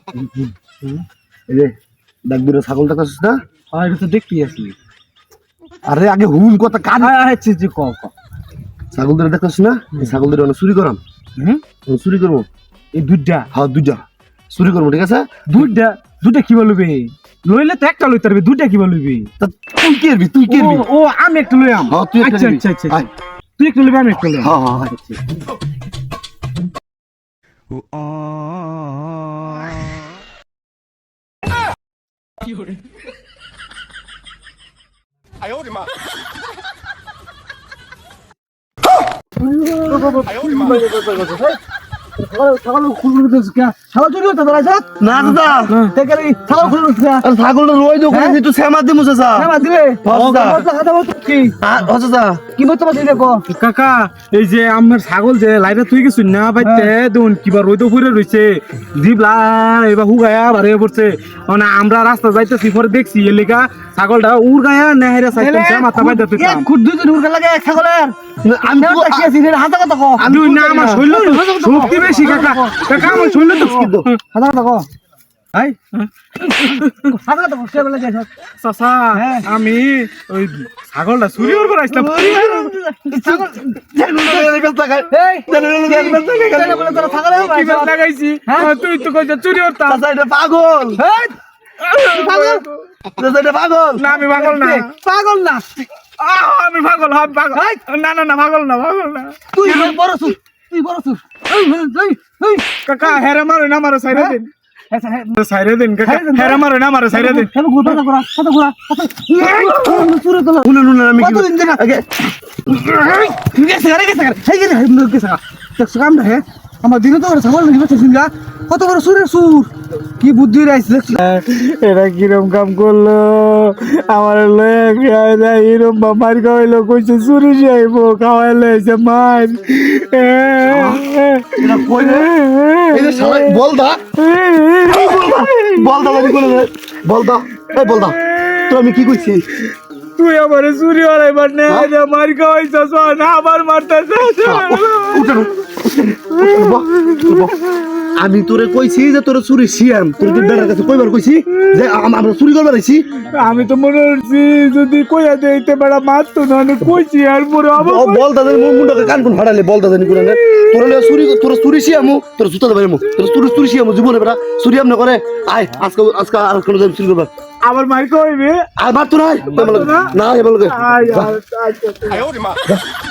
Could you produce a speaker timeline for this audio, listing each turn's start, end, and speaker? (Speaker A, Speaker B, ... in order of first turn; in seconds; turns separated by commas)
Speaker A: 2.3-3.4, Speaker B: 3.7-4.8, Speaker A: 5.9-7.1, Speaker B: 7.0-8.1, Speaker A: 8.9-11.0, Speaker B: 11.4-11.6, Speaker A: 11.9-12.5, Speaker B: 12.9-13.5, Speaker A: 13.5-15.3, Speaker B: 15.5-19.3, Speaker A: 19.4-20.9, Speaker B: 20.5-23.0, Speaker A: 21.9-23.1, Speaker B: 23.6-24.5, Speaker A: 24.4-25.1, Speaker C: 39.4-41.6, Speaker B: 39.9-40.6, Speaker C: 42.2-45.0, Speaker A: 45.0-45.7, Speaker B: 45.2-46.0, Speaker C: 45.9-47.3, Speaker A: 47.2-49.5, Speaker C: 48.1-48.4, Speaker C: 49.4-51.6, Speaker A: 50.0-50.7, Speaker A: 51.6-52.5, Speaker C: 52.5-53.5, Speaker B: 53.5-66.7, Speaker C: 56.6-56.9, Speaker C: 65.3-74.9, Speaker A: 68.4-69.3, Speaker A: 70.2-71.0, Speaker B: 70.3-74.2, Speaker A: 72.3-74.1, Speaker B: 76.0-77.1, Speaker C: 76.4-78.3, Speaker B: 78.6-82.8, Speaker C: 79.1-79.5, Speaker C: 81.9-83.8, Speaker A: 83.3-86.9, Speaker C: 85.1-88.0, Speaker B: 87.3-90.0, Speaker C: 88.5-88.8, Speaker A: 89.9-91.0, Speaker C: 91.0-91.4, Speaker B: 91.8-92.8, Speaker C: 92.0-92.7, Speaker A: 93.1-94.0, Speaker B: 94.0-95.0, Speaker C: 94.1-95.9, Speaker B: 96.2-100.0, Speaker C: 97.5-97.8, Speaker C: 99.5-103.2, Speaker B: 102.9-104.5, Speaker C: 104.1-104.4, Speaker C: 104.9-105.4, Speaker B: 105.3-108.0, Speaker C: 106.0-110.7, Speaker A: 109.6-110.1, Speaker A: 110.6-112.0, Speaker C: 111.2-111.8, Speaker C: 112.7-121.2, Speaker B: 121.2-133.6, Speaker A: 130.7-131.0, Speaker A: 131.6-132.3, Speaker A: 132.9-134.0, Speaker B: 134.2-136.5, Speaker A: 134.9-139.4, Speaker B: 137.7-139.1, Speaker B: 140.2-145.5, Speaker A: 144.4-147.6, Speaker B: 146.4-148.0, Speaker A: 148.2-153.1, Speaker B: 150.2-150.7, Speaker B: 153.4-158.2, Speaker A: 157.8-167.3, Speaker B: 167.7-168.7, Speaker A: 168.8-171.3, Speaker B: 169.5-170.2, Speaker B: 170.7-172.3